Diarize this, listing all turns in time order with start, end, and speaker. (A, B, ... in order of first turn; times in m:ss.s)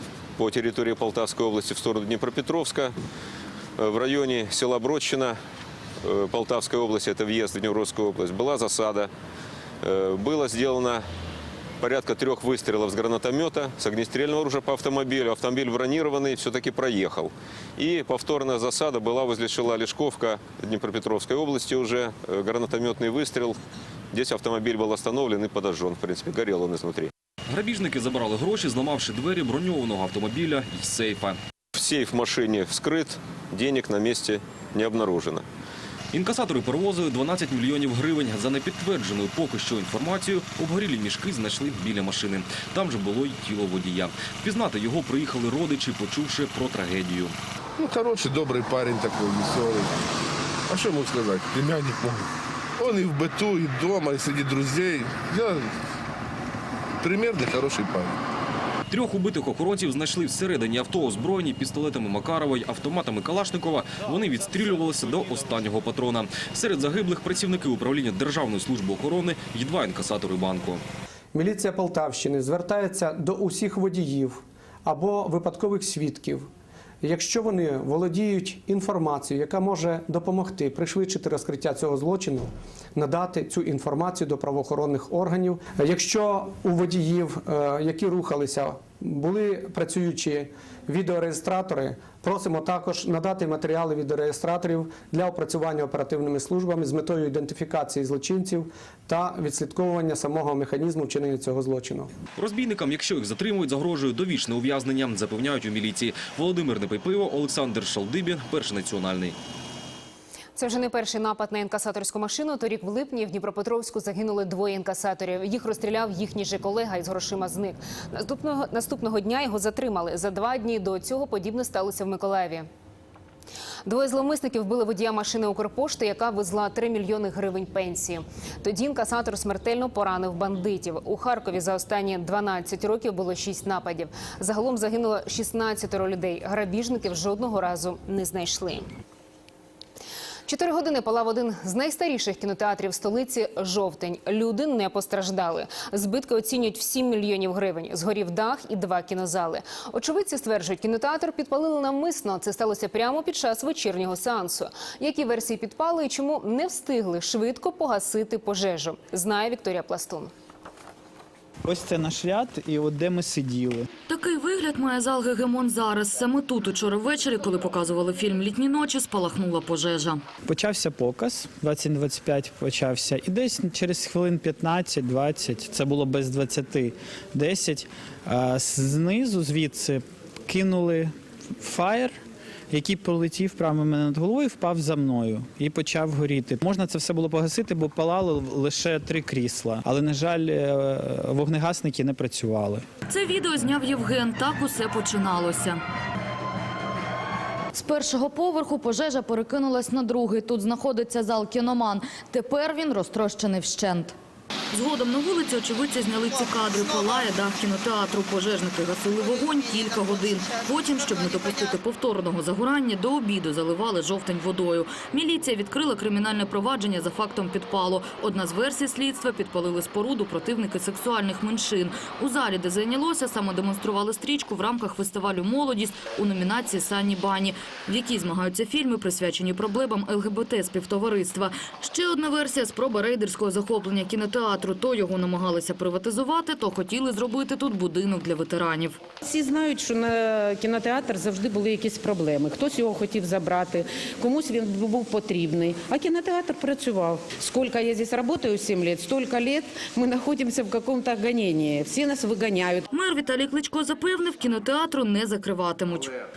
0:00.4-0:03.0 A
0:03.8-0:05.4 A
0:06.0-0:09.1 A
0:09.8-0:11.1 A
0:11.8-0:23.6 A
0:24.1-0:27.1 A
0:27.5-0:31.4 B
0:31.8-0:35.4 A
0:36.1-0:47.4 B
0:47.8-0:50.0 C
0:50.7-0:52.3 C
0:52.8-0:55.7 C
0:57.0-0:58.2 C
0:58.9-1:10.8 B
1:11.3-1:16.5 D
1:17.0-1:42.1 D
1:42.4-1:49.4 B
1:50.6-2:02.7 E
2:03.9-2:18.9 E
2:20.5-2:40.3 E
2:41.6-2:43.9 F
2:44.1-2:50.2 G
2:50.5-3:02.2 F
3:02.7-3:12.8 F
3:13.1-3:15.8 G
3:17.7-3:24.2 G
3:24.7-3:59.0 G
3:59.2-4:12.8 H
4:12.9-4:16.1 G